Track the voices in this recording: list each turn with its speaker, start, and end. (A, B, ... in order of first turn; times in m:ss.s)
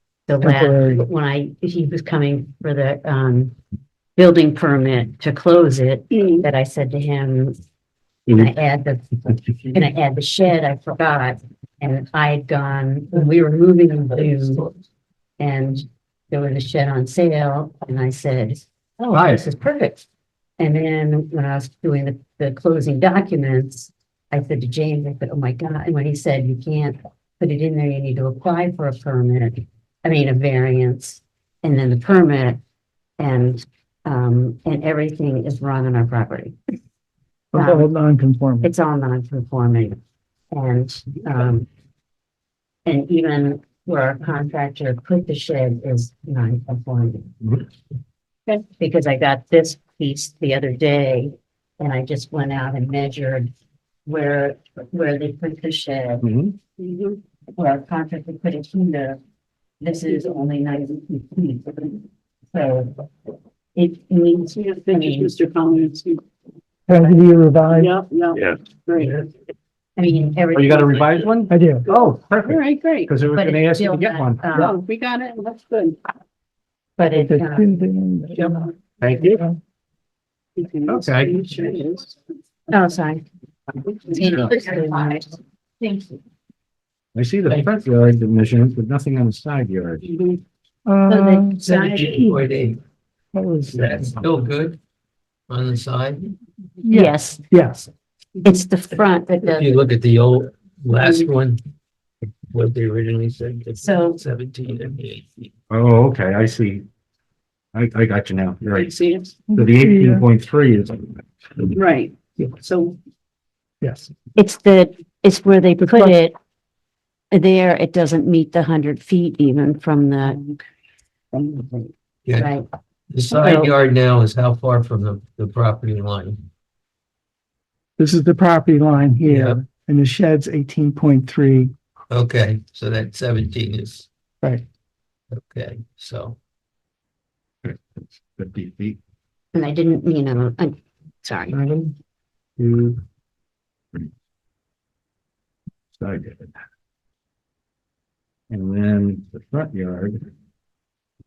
0:00.3-0:03.6 A
0:00.6-0:01.0 B
0:04.2-0:07.6 A
0:06.1-0:06.5 C
0:08.3-0:09.1 A
0:09.7-0:14.7 A
0:15.4-0:20.1 A
0:19.1-0:19.4 D
0:20.6-0:32.6 A
0:33.2-0:36.6 A
0:37.5-0:38.7 B
0:37.5-0:37.9 A
0:38.6-0:40.0 A
0:40.5-0:41.7 A
0:42.9-0:47.3 A
0:48.8-0:53.5 A
0:54.0-0:56.3 A
0:56.2-0:56.6 D
0:56.8-0:57.2 C
0:57.6-0:59.2 A
0:59.8-1:02.9 A
1:03.8-1:05.3 A
1:04.6-1:06.2 C
1:06.9-1:07.9 B
1:07.7-1:09.3 C
1:10.0-1:11.3 A
1:10.5-1:14.5 D
1:11.5-1:11.8 B
1:11.8-1:13.1 C
1:13.3-1:14.8 A
1:14.5-1:16.0 C
1:17.0-1:17.8 A
1:17.2-1:18.7 B
1:18.4-1:19.3 C
1:19.0-1:19.4 D
1:20.6-1:22.2 C
1:20.9-1:21.4 D
1:22.7-1:23.2 A
1:23.9-1:24.8 C
1:24.0-1:25.4 A
1:25.8-1:26.2 C
1:27.2-1:30.1 D
1:30.0-1:30.4 C
1:30.9-1:31.6 B
1:31.1-1:32.3 A
1:31.6-1:32.8 E
1:33.3-1:33.8 B
1:33.7-1:34.8 E
1:35.5-1:36.2 E
1:36.9-1:37.4 A
1:37.5-1:37.9 B
1:38.4-1:39.9 A
1:39.5-1:41.6 E
1:42.5-1:45.5 E
1:43.8-1:44.2 A
1:45.7-1:46.8 D
1:47.7-1:48.9 D
1:48.7-1:49.4 C
1:49.5-1:50.2 B
1:49.6-1:51.7 D
1:51.8-1:53.0 C
1:53.8-1:54.1 B
1:54.4-1:56.4 A
1:57.3-2:00.4 A
2:00.2-2:00.6 C
2:01.3-2:01.9 C
2:02.4-2:02.7 A
2:03.1-2:06.4 E
2:03.3-2:03.7 A
2:08.0-2:11.7 B
2:09.2-2:09.6 E
2:12.1-2:14.1 E
2:15.3-2:16.4 E
2:17.6-2:19.0 D
2:19.5-2:21.6 A
2:21.5-2:21.9 D
2:22.6-2:23.0 D
2:26.0-2:26.6 D
2:28.5-2:30.3 D